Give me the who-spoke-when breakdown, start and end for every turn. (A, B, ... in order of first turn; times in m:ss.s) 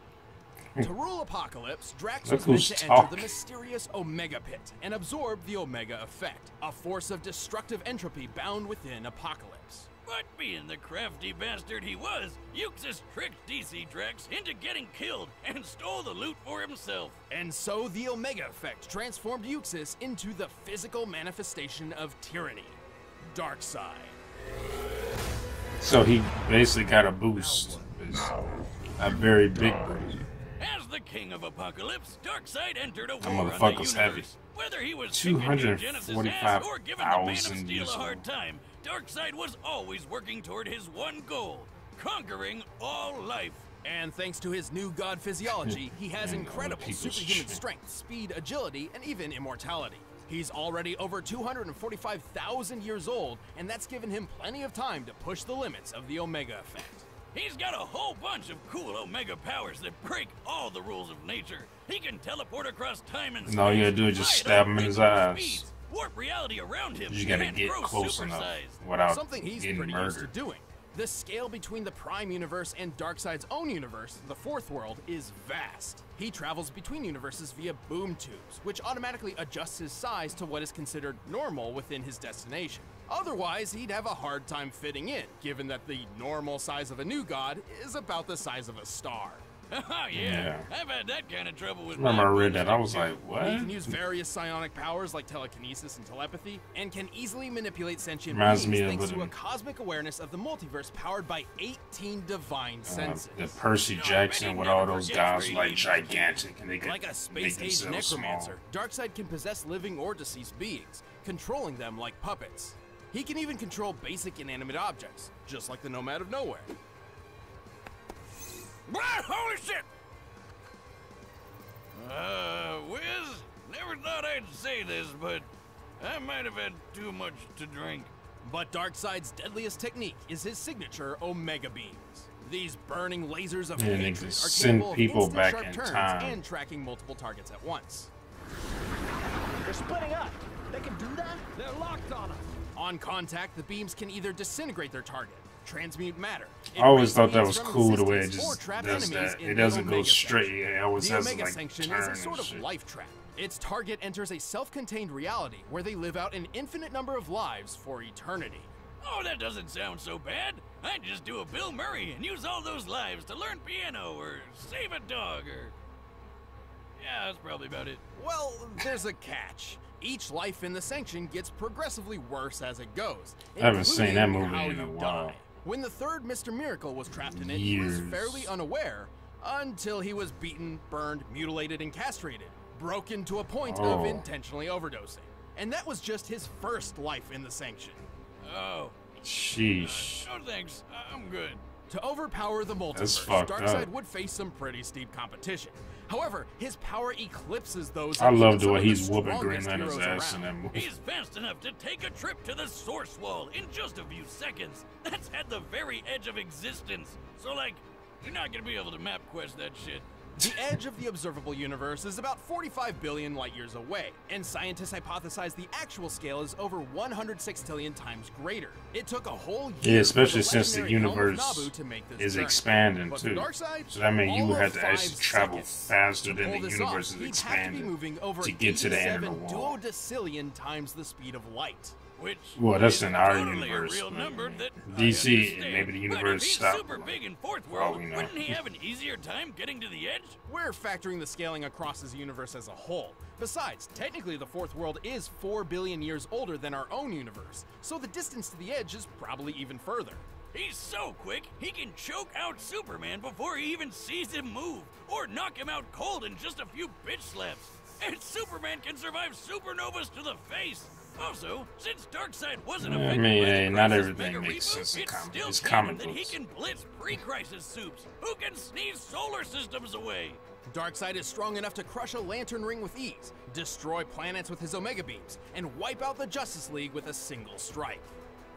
0:00.8-0:09.9 A
0:02.2-0:03.3 B
0:10.0-0:17.2 C
0:17.3-0:24.2 A
0:25.8-0:28.4 B
0:29.0-0:30.2 B
0:30.6-0:43.6 C
0:33.2-0:34.3 B
0:35.1-0:38.2 B
0:43.8-0:57.1 A
0:45.6-0:47.6 B
0:57.3-1:08.8 C
1:03.4-1:05.6 B
1:07.1-1:10.3 B
1:09.0-1:29.4 A
1:29.7-1:33.2 C
1:30.1-1:30.7 B
1:31.9-1:34.0 B
1:33.3-1:43.5 A
1:38.3-1:39.3 B
1:42.8-1:48.6 B
1:43.9-1:46.3 C
1:46.8-1:56.7 A
1:58.9-1:59.9 C
2:01.9-2:05.5 C
2:06.0-2:08.1 C
2:08.4-2:18.1 A
2:13.8-2:16.4 B
2:19.6-2:22.5 D
2:22.7-2:38.7 A
2:26.7-2:32.6 B
2:39.0-2:45.7 C
2:47.0-2:48.0 C
2:48.1-3:08.0 A
2:53.6-2:55.4 B
2:57.1-2:58.5 B
3:03.6-3:04.2 B
3:08.4-3:09.0 C
3:09.2-3:10.3 B
3:09.8-3:11.6 C
3:11.9-3:20.5 A
3:12.9-3:13.9 B
3:18.2-3:20.9 B
3:20.7-3:30.1 C
3:30.4-3:52.0 A
3:39.8-3:49.8 B
3:52.2-4:00.4 C
3:52.6-3:58.6 B
4:00.4-4:10.2 A
4:10.5-4:30.4 C
4:22.8-4:26.4 B
4:30.7-4:38.2 A